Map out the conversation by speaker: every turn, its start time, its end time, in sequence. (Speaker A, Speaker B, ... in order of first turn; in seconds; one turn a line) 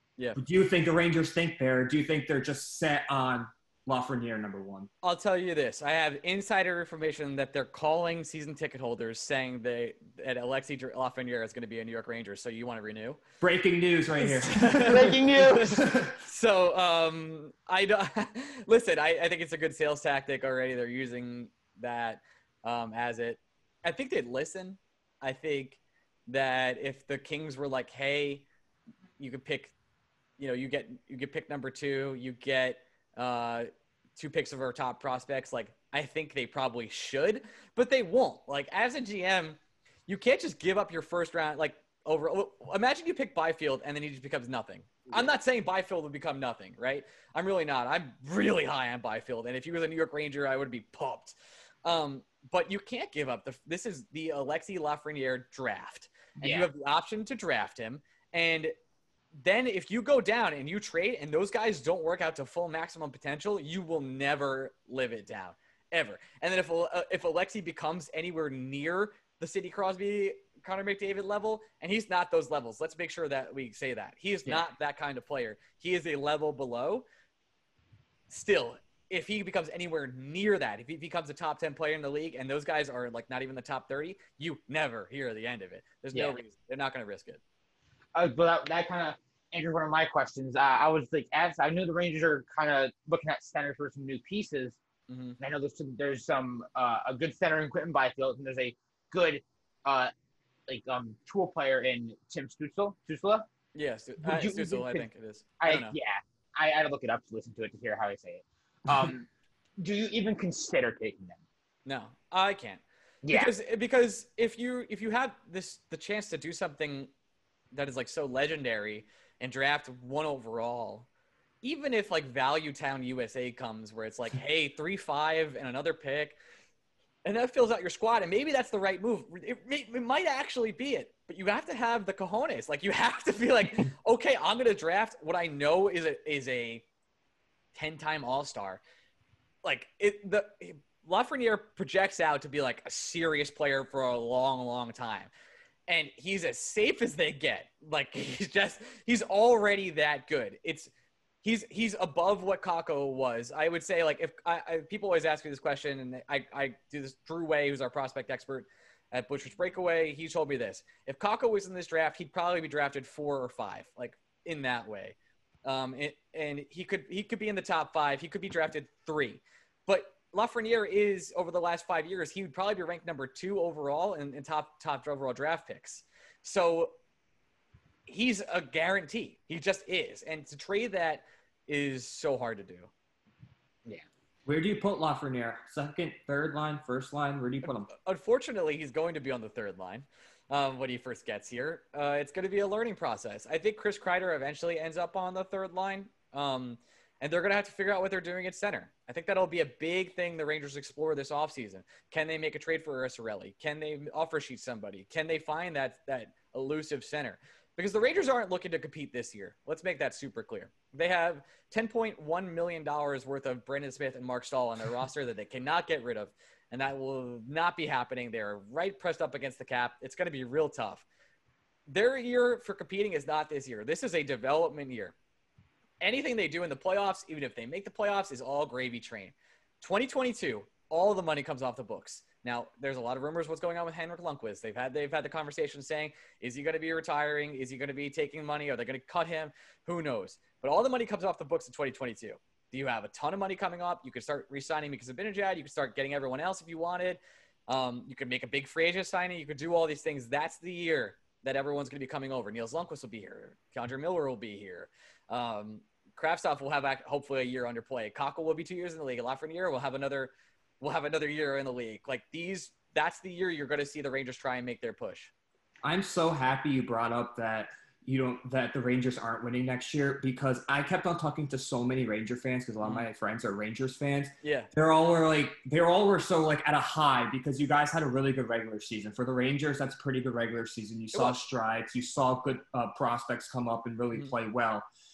Speaker A: 0.3-4.9
Speaker B: 5.0-13.2
Speaker A: 13.4-16.2
Speaker B: 14.2-28.4
Speaker C: 14.9-15.8
Speaker B: 29.2-29.7
Speaker B: 30.4-58.7
Speaker C: 56.4-56.7
Speaker B: 59.4-77.0
Speaker B: 78.3-87.4
Speaker C: 88.1-94.8
Speaker B: 95.1-95.4
Speaker C: 95.4-100.1
Speaker C: 100.7-103.5
Speaker B: 103.7-105.9
Speaker C: 104.2-105.1
Speaker C: 105.6-109.3
Speaker C: 109.8-111.4
Speaker B: 111.8-117.1
Speaker C: 113.2-113.5
Speaker B: 117.7-121.1
Speaker B: 121.6-126.4
Speaker B: 127.2-136.8
Speaker B: 137.7-138.8
Speaker B: 139.6-145.3
Speaker B: 145.9-150.9
Speaker B: 151.4-177.0
Speaker B: 178.1-182.9
Speaker A: 184.4-187.9
Speaker B: 187.6-221.1
Speaker B: 221.9-225.1
Speaker B: 226.0-265.3
Speaker A: 265.8-284.8
Speaker B: 274.4-274.7
Speaker B: 281.1-281.4